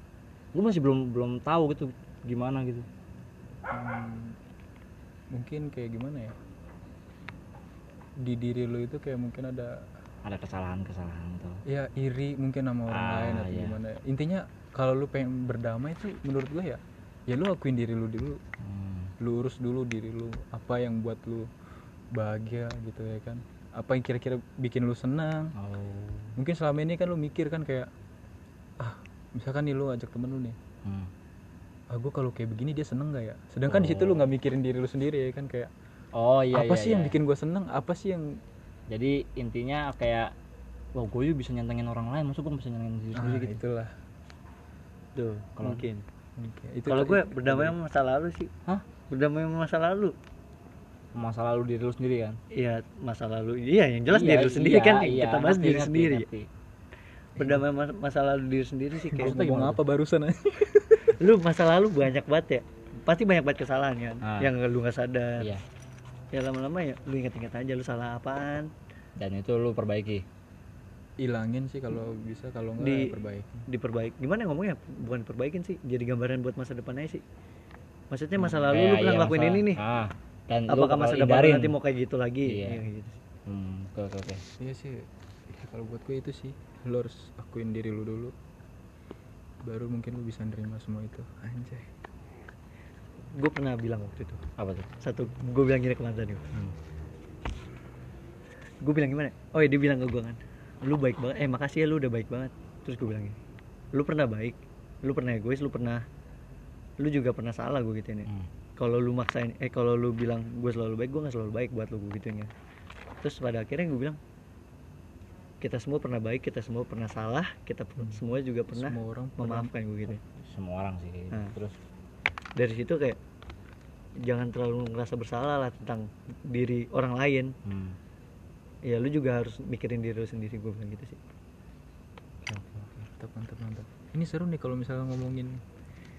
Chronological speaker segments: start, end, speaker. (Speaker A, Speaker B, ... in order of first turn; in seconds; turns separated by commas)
Speaker A: 0.5-2.9, Speaker B: 3.7-4.3, Speaker B: 5.3-6.3, Speaker B: 8.2-9.8, Speaker A: 10.2-11.6, Speaker B: 11.7-18.4, Speaker A: 12.9-13.8, Speaker A: 18.6-19.1, Speaker B: 19.2-21.5, Speaker B: 22.1-25.5, Speaker A: 25.6-26.3, Speaker B: 26.4-27.9, Speaker B: 28.8-30.6, Speaker A: 30.8-31.1, Speaker B: 31.9-35.7, Speaker A: 33.7-34.3, Speaker A: 36.1-37.1, Speaker B: 36.5-38.4, Speaker A: 38.9-40.3, Speaker A: 41.0-43.6, Speaker B: 43.1-43.9, Speaker C: 45.1-46.0, Speaker A: 45.6-45.9, Speaker B: 46.4-47.7, Speaker C: 46.9-48.5, Speaker C: 49.1-50.1, Speaker A: 51.1-52.4, Speaker C: 52.5-56.3, Speaker A: 54.1-56.5, Speaker C: 57.4-59.4, Speaker B: 59.1-61.2, Speaker A: 59.2-59.8, Speaker C: 61.2-65.5, Speaker A: 64.2-64.5, Speaker C: 66.3-68.7, Speaker A: 69.2-70.2, Speaker B: 71.2-73.6, Speaker C: 72.8-73.2, Speaker C: 73.7-77.2, Speaker C: 78.1-79.8, Speaker A: 78.6-81.8, Speaker C: 80.7-83.2, Speaker A: 82.5-82.8, Speaker A: 83.5-84.4, Speaker B: 84.6-88.3, Speaker B: 89.6-91.9, Speaker C: 93.3-94.4, Speaker A: 94.6-94.9, Speaker C: 95.0-96.5, Speaker C: 98.8-103.4, Speaker C: 103.9-106.0, Speaker C: 107.0-112.5, Speaker C: 113.2-114.2, Speaker C: 115.6-120.2, Speaker B: 118.7-119.7, Speaker A: 120.2-121.8, Speaker C: 122.5-123.2, Speaker C: 124.2-127.5, Speaker A: 127.6-128.0, Speaker C: 128.8-131.2, Speaker A: 132.4-133.0, Speaker B: 133.1-135.6